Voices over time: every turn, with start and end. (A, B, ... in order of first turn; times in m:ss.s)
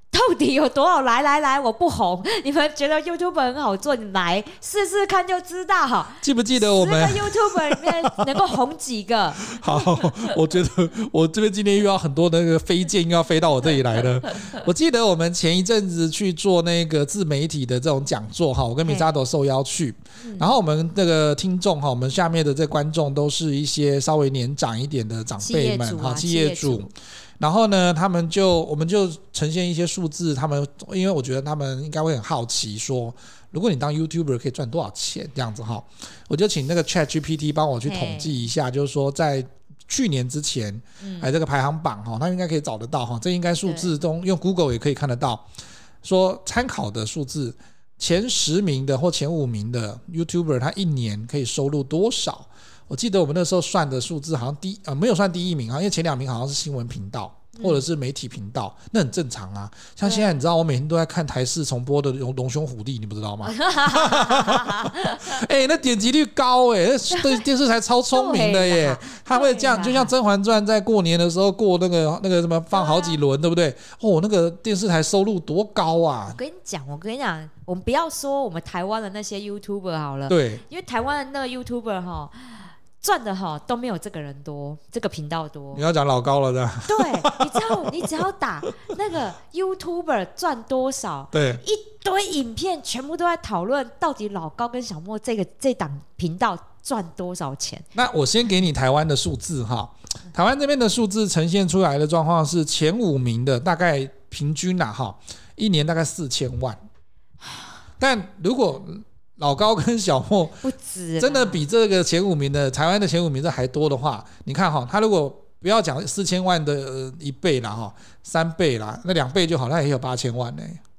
0:00.1-0:09.8 A
0:06.2-0:08.3 B
0:09.4-0:45.5 B
0:20.2-0:20.5 A
0:25.4-0:26.9 A
0:37.8-0:38.4 A
0:41.0-0:41.3 A
0:46.0-1:16.4 B
0:57.6-0:57.8 A
1:00.0-1:00.4 A
1:03.4-1:05.4 A
1:07.1-1:07.5 A
1:08.1-1:10.1 A
1:12.7-1:13.2 A
1:16.3-1:25.8 A
1:20.3-1:20.6 B
1:25.7-1:28.1 B
1:26.9-1:37.9 A
1:31.3-1:31.6 B
1:38.0-1:46.8 B
1:48.0-1:50.6 B
1:50.6-1:51.6 A
1:51.2-2:00.8 B